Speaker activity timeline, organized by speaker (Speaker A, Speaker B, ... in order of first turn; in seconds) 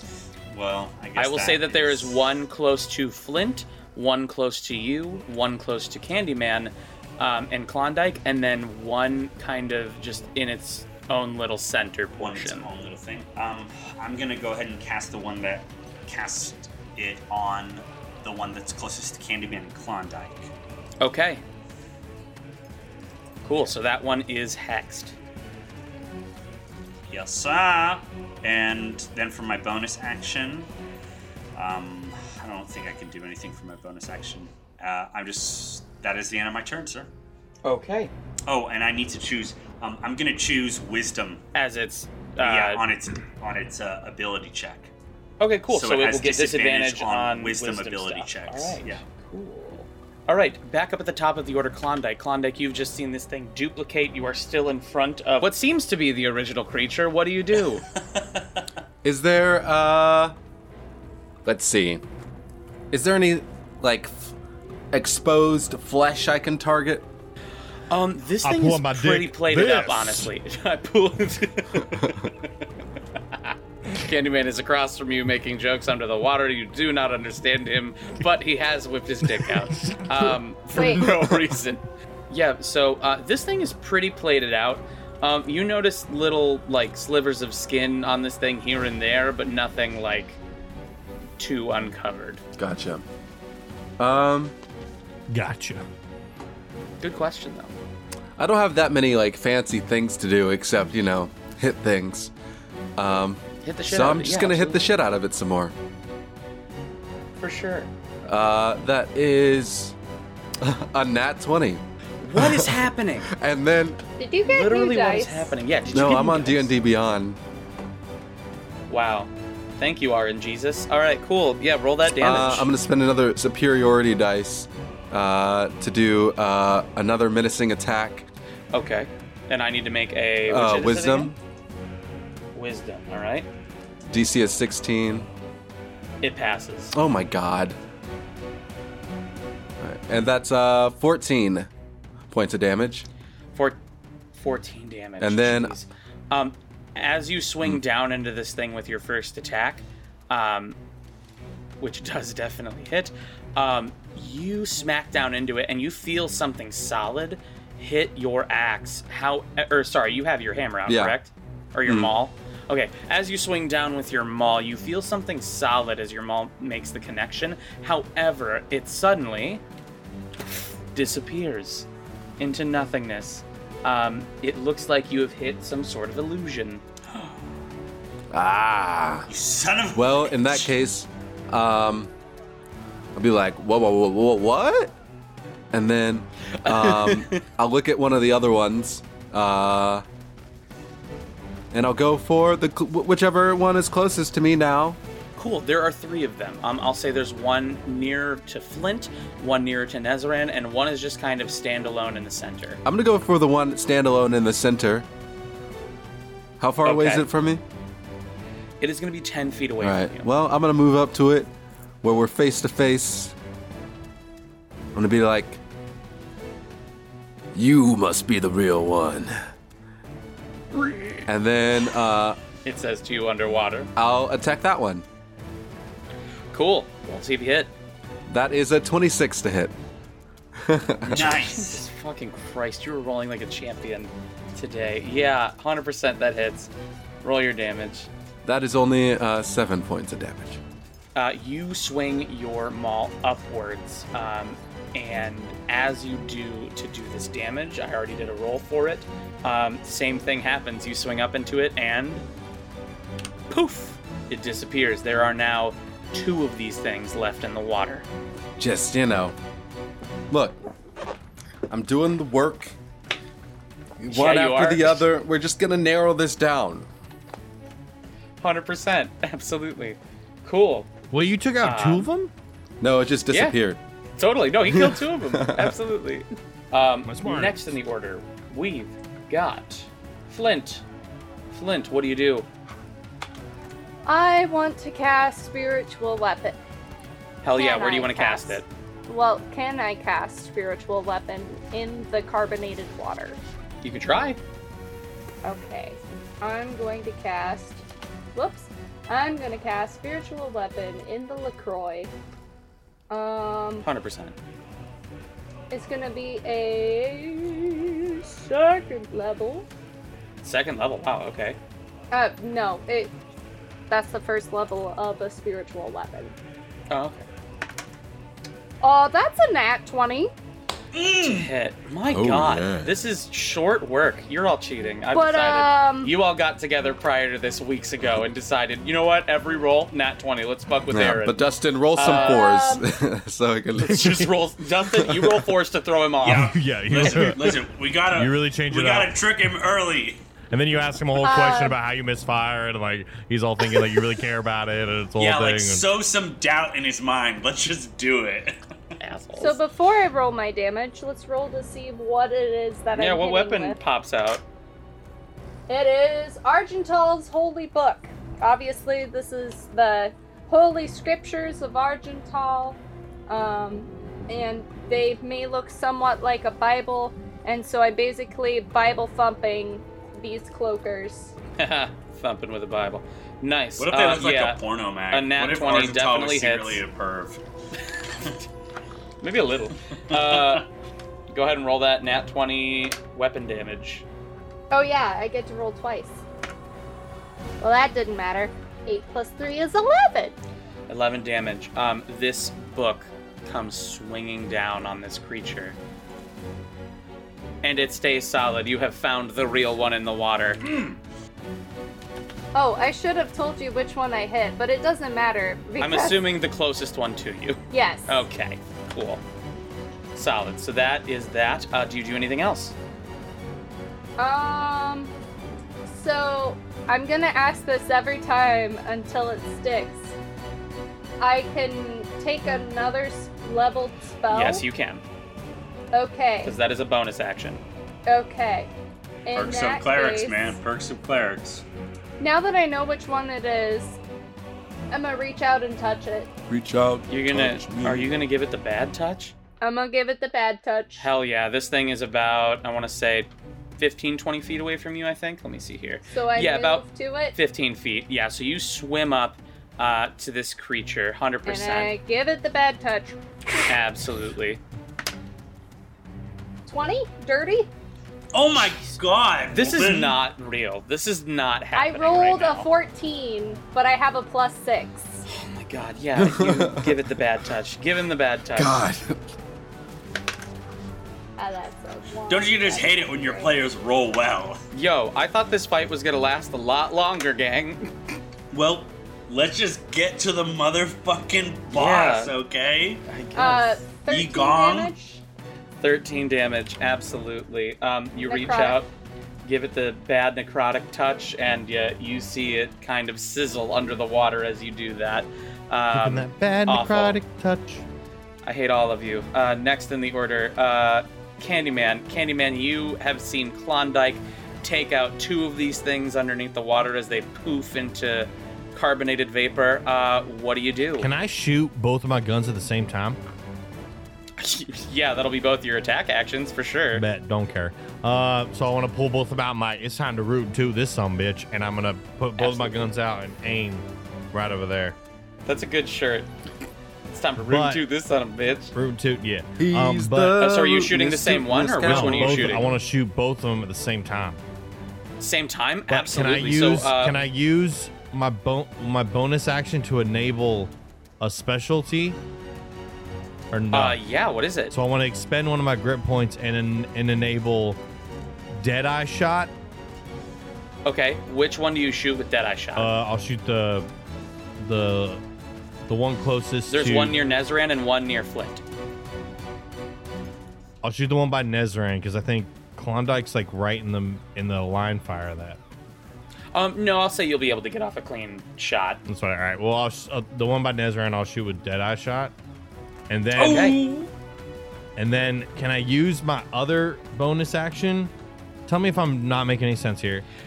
Speaker A: 0.5-2.2, 12.2-20.5, 27.1-30.7, 31.5-37.1, 38.5-41.4, 42.4-44.9, 45.7-49.0, 179.3-180.7, 231.1-231.8, 320.9-321.5, 336.2-340.2, 345.2-348.6, 373.8-377.4, 380.1-380.6, 429.3-431.6, 458.3-460.2, 472.3-474.6, 478.5-483.0, 484.1-484.9, 573.4-574.1
Speaker B: 1.1-12.7, 21.0-21.4, 23.4-25.1, 37.6-38.1, 41.5-42.8, 45.4-57.8, 67.9-72.3, 73.3-90.4, 91.4-92.4, 97.0-97.7, 103.6-104.8, 107.4-107.9, 112.2-113.3, 114.4-116.7, 118.9-122.7, 128.7-131.3, 132.5-133.5, 136.2-136.9, 143.5-143.8, 144.3-150.8, 151.8-169.6, 170.9-171.9, 172.4-176.8, 186.6-187.4, 195.3-202.8, 206.8-207.2, 208.8-210.3, 220.7-221.2, 222.6-223.9, 226.5-227.7, 231.1-236.7, 237.2-238.1, 241.1-252.2, 253.5-258.1, 264.1-265.1, 268.4-270.9, 271.6-272.1, 273.3-273.6, 274.2-280.8, 281.5-282.5, 287.4-288.6, 293.8-294.4, 303.8-304.4, 310.4-311.6, 316.9-317.2, 321.2-331.4, 331.9-332.5, 333.8-336.6, 349.0-349.6, 352.9-354.4, 371.6-376.8, 379.2-380.7, 381.3-384.1, 390.9-395.8, 397.6-400.6, 405.8-409.2, 410.1-412.7, 424.3-425.0, 426.4-427.6, 437.1-439.3, 441.0-451.9, 453.7-454.6, 458.5-459.0, 459.5-462.7, 465.3-468.8, 474.7-477.9, 481.7-482.3, 483.1-483.8, 485.8-488.9, 489.4-497.2, 498.4-511.1, 514.4-517.0, 522.4-522.8, 525.5-526.3, 527.1-528.7, 530.4-532.7, 535.2-537.1, 543.7-544.7, 550.8-552.9, 556.7-558.6, 566.5-569.0, 573.3-573.8
Speaker C: 59.0-60.4, 61.4-62.0, 62.9-64.3, 64.9-67.0, 92.6-93.0, 94.0-94.5, 98.4-102.3, 103.0-105.7, 108.2-109.9, 110.6-111.8, 112.3-114.0, 115.9-117.4, 122.2-128.3, 130.5-131.3, 134.1-135.3, 136.9-137.8, 139.8-141.7, 142.3-143.1, 145.2-145.7, 160.8-161.2, 161.9-162.1, 178.3-179.3, 179.9-182.1, 183.1-184.9, 185.7-190.1, 191.7-195.0, 202.8-205.1, 206.6-207.6, 209.8-211.5, 212.0-213.3, 214.9-215.6, 217.5-219.4, 221.2-222.4, 223.9-225.0, 228.3-229.7, 230.6-231.4, 238.4-240.6, 258.6-259.4, 260.3-260.6, 261.7-262.7, 264.0-266.9, 272.8-273.8, 274.6-275.8, 322.1-322.9, 330.9-334.3, 334.9-335.4, 436.5-438.1, 466.2-466.9, 468.6-469.2, 529.6-532.7
Speaker D: 68.4-70.3, 79.4-80.0, 95.3-95.8, 271.1-272.3, 277.1-277.7, 336.2-339.1, 340.5-345.9, 495.9-497.8, 511.0-513.2, 516.9-525.0, 527.4-527.8, 528.7-530.4, 531.8-534.4, 535.9-542.2, 543.5-544.0, 544.7-547.8, 548.6-549.5, 552.8-553.9, 554.6-555.2, 555.9-557.2, 560.8-565.6, 569.1-572.3, 573.1-573.7, 575.0-578.1, 578.7-580.2
Speaker E: 80.7-81.0, 114.2-115.5, 284.1-286.6, 287.5-293.4, 295.4-302.1, 303.1-303.9, 305.7-309.7, 312.1-313.1, 313.9-316.3, 318.8-320.3, 325.1-326.1, 332.0-332.8, 341.2-341.8, 349.4-353.8, 355.7-371.3, 384.7-386.2, 387.6-390.4, 402.5-406.2, 407.7-408.2, 414.2-415.1, 415.9-420.1, 421.2-424.6, 425.9-426.6, 428.1-428.7, 429.2-430.5, 432.2-434.0, 434.9-436.3, 439.6-441.1, 446.1-447.4, 451.4-453.6, 456.6-457.7, 461.7-465.2, 471.4-473.5, 483.4-485.2, 488.3-488.8